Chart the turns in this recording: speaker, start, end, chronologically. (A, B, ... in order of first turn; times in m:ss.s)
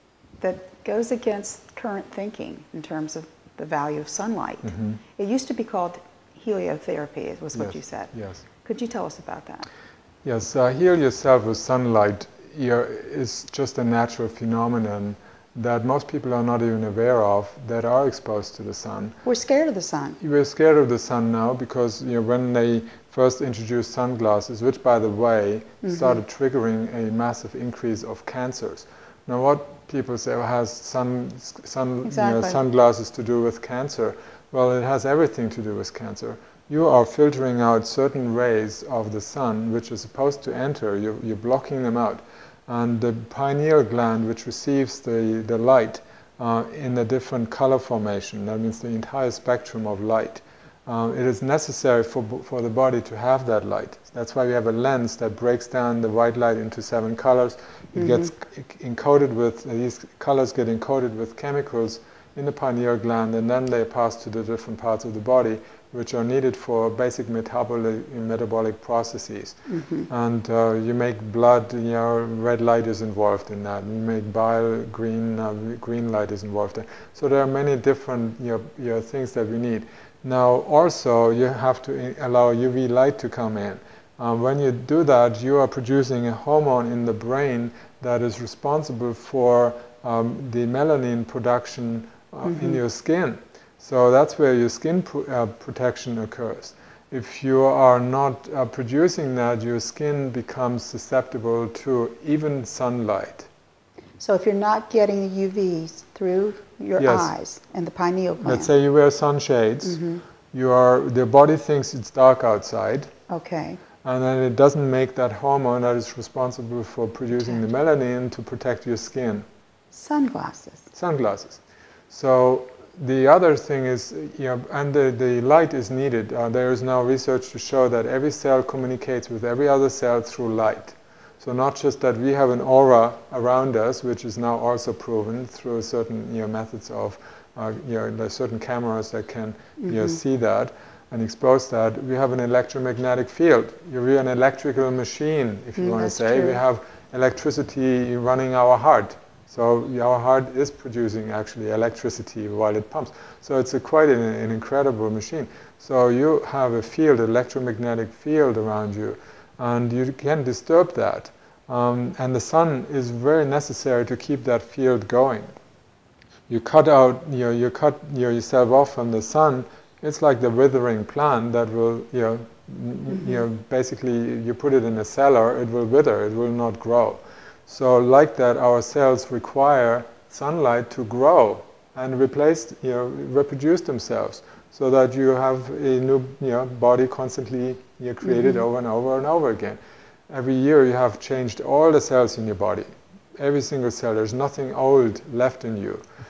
0:00.4-0:09.7 A
0:04.6-0:05.0 B
0:07.6-0:08.5 B
0:10.2-0:19.2 B
0:19.2-0:20.2 A
0:20.2-1:09.6 B
0:25.9-0:26.1 A
0:32.0-0:32.6 A
0:58.0-0:58.3 A
1:09.7-1:10.1 A
1:10.1-1:43.5 B
1:32.5-1:32.7 A
1:44.2-1:48.7 A
1:47.0-1:47.3 B
1:48.4-1:53.1 B
1:49.8-1:50.2 A
1:53.3-1:53.8 A
1:54.0-1:59.4 B
1:59.9-2:00.9 A
2:00.9-2:45.5 B
2:25.8-2:26.6 A
2:46.5-3:12.9 B
3:13.4-3:16.0 B